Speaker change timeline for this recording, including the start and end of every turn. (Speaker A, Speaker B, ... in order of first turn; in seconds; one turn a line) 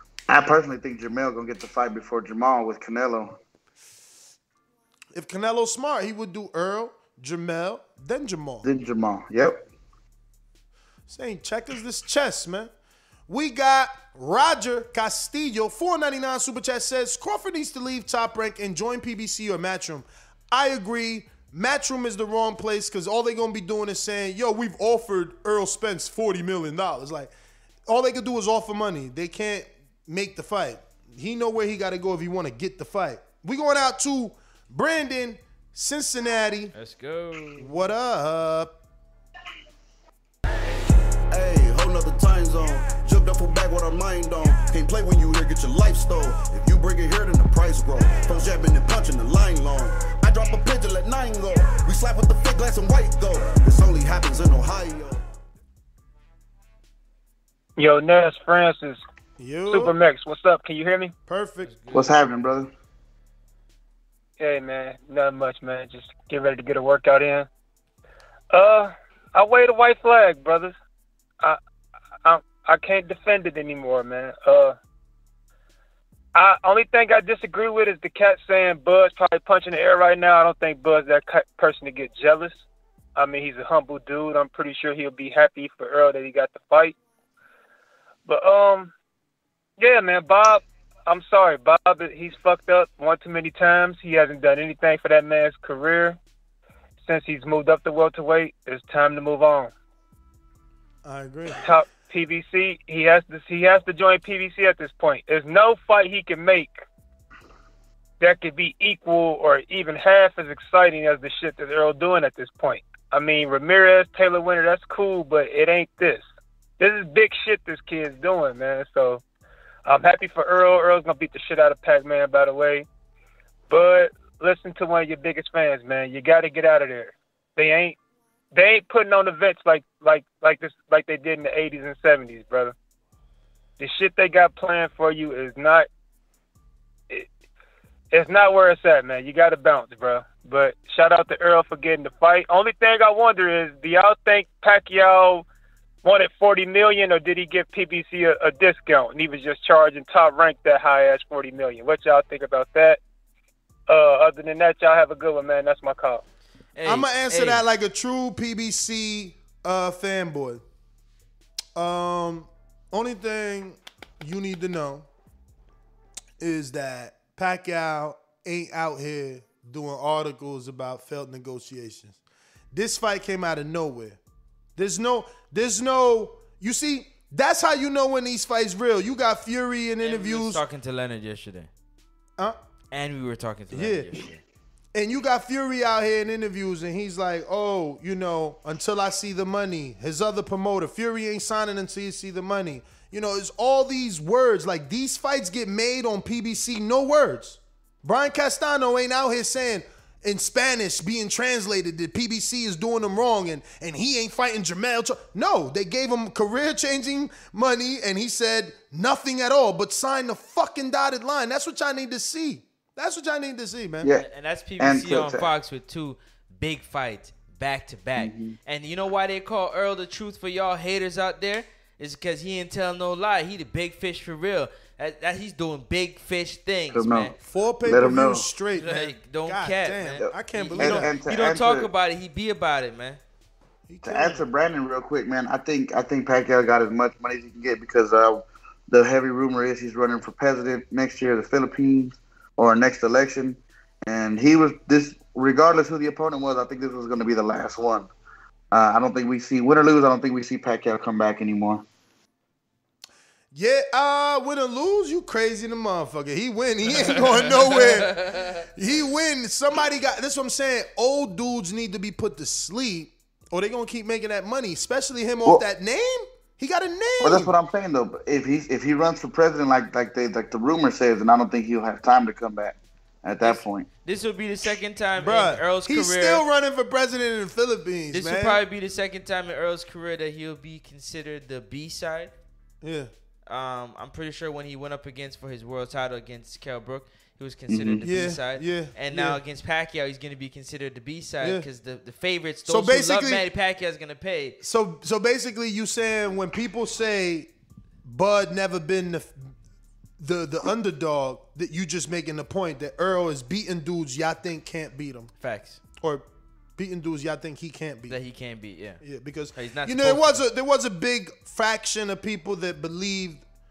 Speaker A: 0.3-3.4
Speaker B: 5.1-8.7
Speaker A: 8.6-9.6
Speaker B: 11.1-12.7
Speaker B: 13.3-27.3
Speaker B: 27.9-36.7
Speaker C: 36.7-37.8
Speaker B: 37.6-38.7
Speaker D: 41.3-55.2
Speaker E: 57.8-59.0
Speaker B: 59.4-59.9
Speaker E: 59.7-61.1
Speaker B: 61.3-61.7
Speaker C: 61.6-62.2
Speaker A: 61.9-62.7
Speaker E: 64.4-67.5
Speaker E: 68.5-70.7
Speaker E: 72.2-74.8
Speaker E: 76.3-82.6
Speaker E: 83.2-86.9
Speaker E: 88.2-88.9
Speaker E: 89.8-96.2
Speaker E: 97.0-99.7
Speaker B: 101.0-101.7
Speaker E: 101.6-106.8
Speaker E: 108.2-116.2
Speaker E: 116.8-119.2
Speaker E: 119.8-122.8
Speaker E: 123.7-128.0
Speaker E: 128.5-132.7
Speaker E: 133.8-135.9
Speaker E: 138.1-145.4
Speaker E: 146.0-153.0
Speaker E: 153.9-156.2
Speaker C: 156.8-157.6
Speaker B: 156.8-160.6
Speaker B: 161.8-165.1
Speaker B: 166.4-172.2
Speaker B: 172.7-174.2
Speaker B: 174.8-180.6
Speaker C: 180.0-181.7
Speaker C: 182.9-184.4
Speaker B: 183.7-184.1
Speaker B: 184.9-214.1
Speaker C: 214.1-227.3
Speaker A: 214.8-215.5
Speaker A: 218.2-218.6
Speaker A: 226.9-228.5
Speaker B: 227.4-231.2
Speaker C: 228.7-233.2
Speaker A: 230.3-231.9
Speaker B: 233.9-234.4
Speaker A: 234.0-248.1
Speaker A: 248.7-251.8
Speaker B: 253.5-258.2
Speaker C: 257.0-258.6
Speaker B: 258.8-267.6
Speaker A: 267.2-273.9
Speaker C: 273.4-276.4
Speaker B: 275.2-278.6
Speaker C: 278.1-282.3
Speaker B: 282.8-283.1
Speaker C: 283.5-294.6
Speaker A: 287.7-288.0
Speaker B: 288.0-289.4
Speaker B: 292.6-293.5
Speaker B: 294.6-297.5
Speaker B: 298.0-299.5
Speaker B: 300.2-305.3
Speaker C: 305.4-305.8
Speaker B: 306.0-306.2
Speaker B: 306.8-308.2
Speaker C: 308.1-309.0
Speaker B: 309.0-313.4
Speaker C: 309.5-310.4